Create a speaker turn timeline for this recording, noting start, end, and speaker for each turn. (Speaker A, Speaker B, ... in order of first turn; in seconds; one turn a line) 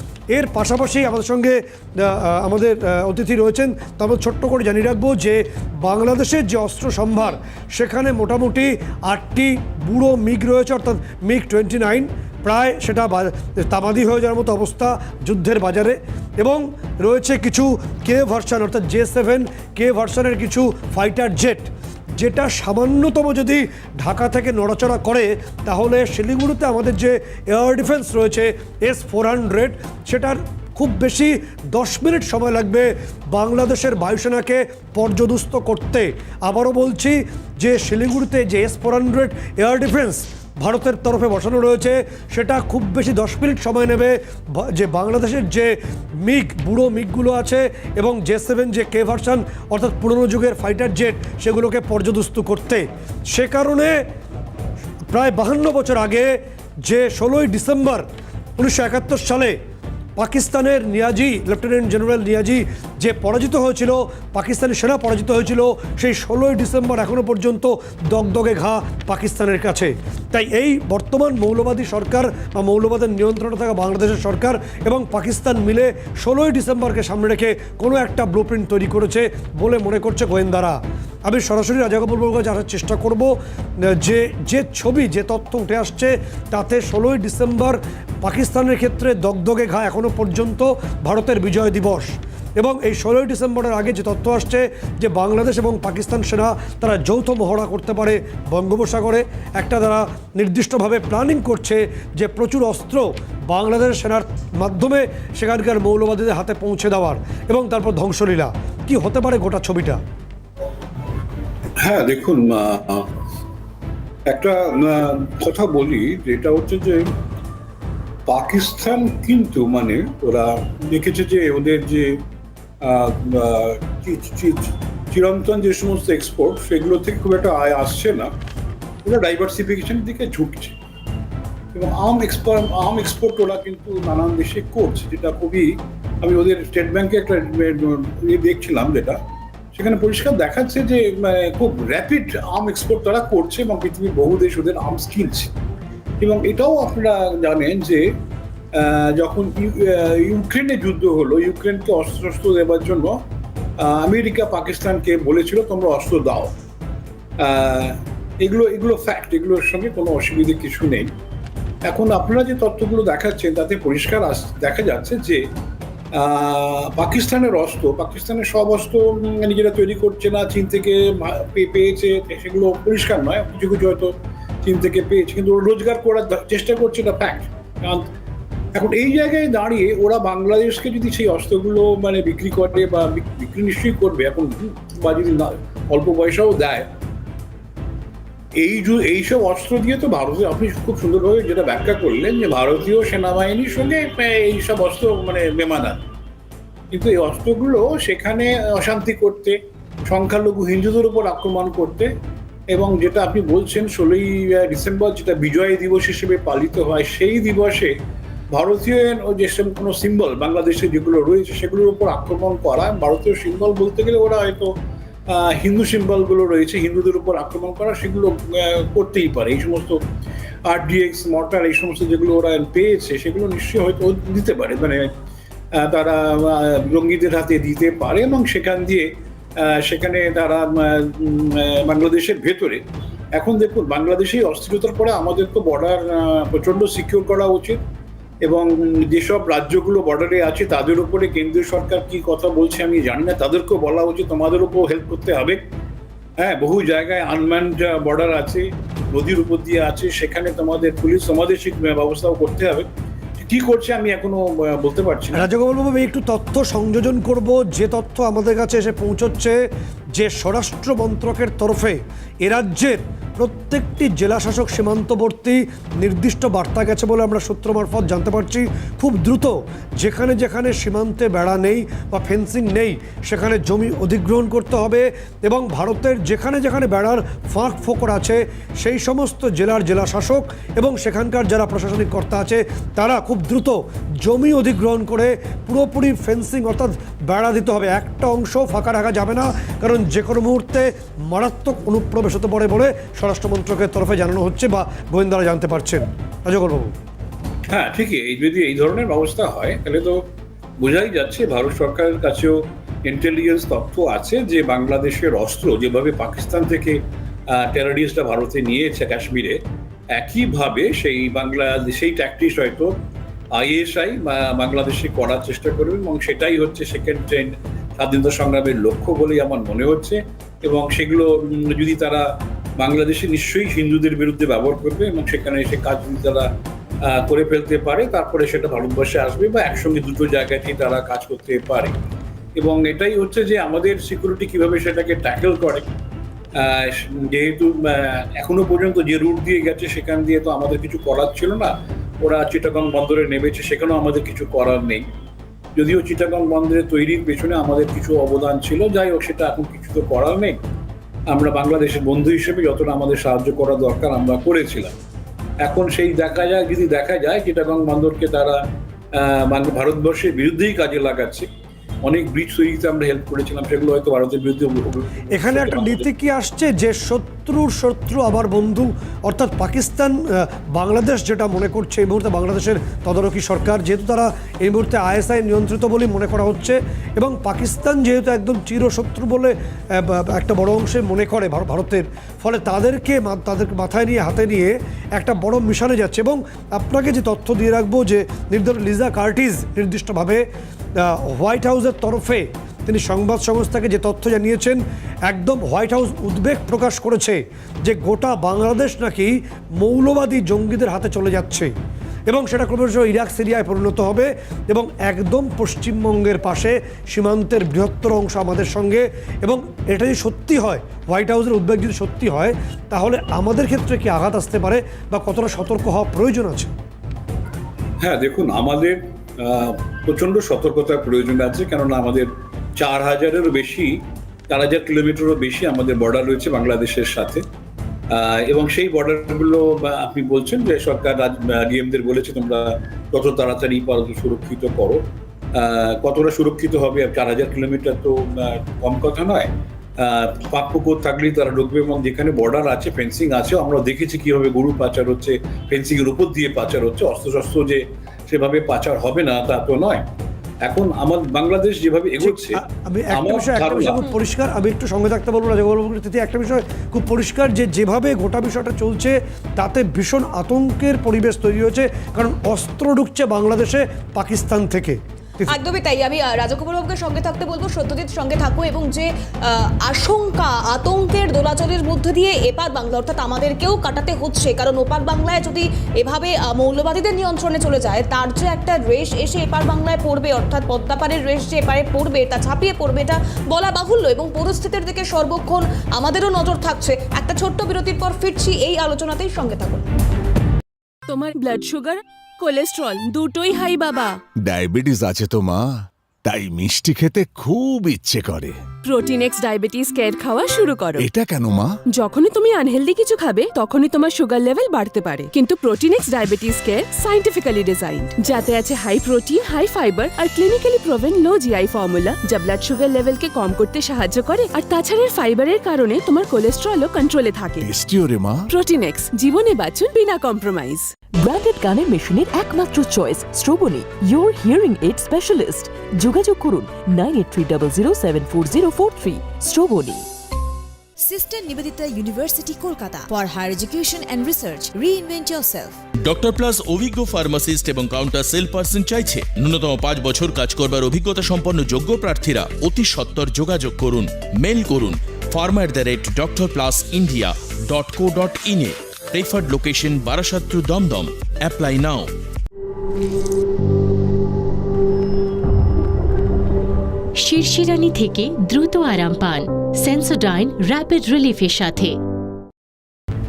Speaker A: 0.3-54.0
Speaker A: 55.1-58.1
Speaker A: 58.6-59.6
Speaker A: 60.2-110.0
Speaker B: 111.8-113.1
Speaker B: 114.3-117.1
Speaker B: 118.3-122.2
Speaker B: 122.8-128.3
Speaker B: 129.1-130.8
Speaker B: 131.7-139.2
Speaker B: 139.7-145.5
Speaker B: 146.2-148.1
Speaker B: 148.7-153.2
Speaker B: 153.8-156.5
Speaker B: 157.4-161.1
Speaker B: 161.9-165.4
Speaker B: 166.1-178.1
Speaker B: 178.8-186.9
Speaker B: 188.6-196.0
Speaker B: 196.9-199.6
Speaker B: 200.1-202.1
Speaker B: 202.7-207.9
Speaker B: 208.5-214.7
Speaker B: 215.3-220.0
Speaker B: 220.7-225.1
Speaker B: 225.8-232.8
Speaker B: 233.4-237.8
Speaker B: 238.4-245.6
Speaker B: 246.4-252.8
Speaker B: 253.4-255.5
Speaker A: 255.3-259.6
Speaker A: 260.1-296.9
Speaker B: 297.7-300.3
Speaker B: 300.8-309.6
Speaker B: 310.1-312.9
Speaker B: 313.5-322.3
Speaker B: 322.8-326.5
Speaker B: 327.0-331.9
Speaker B: 332.6-335.9
Speaker B: 336.6-345.1
Speaker B: 345.8-350.6
Speaker B: 351.3-354.9
Speaker B: 355.6-358.6
Speaker B: 359.1-361.5
Speaker B: 362.0-366.1
Speaker A: 365.3-401.7
Speaker A: 402.3-416.7
Speaker B: 418.0-427.4
Speaker B: 428.1-435.0
Speaker B: 435.5-450.0
Speaker B: 450.6-452.6
Speaker A: 452.2-465.5
Speaker B: 453.1-454.1
Speaker C: 465.5-489.9
Speaker D: 491.1-494.2
Speaker E: 494.4-498.6
Speaker D: 498.8-501.1
Speaker E: 501.0-501.8
Speaker D: 501.9-517.7
Speaker E: 517.6-518.5
Speaker D: 518.5-520.9
Speaker F: 521.2-530.1
Speaker G: 531.0-535.8
Speaker H: 536.0-552.1
Speaker I: 557.2-561.9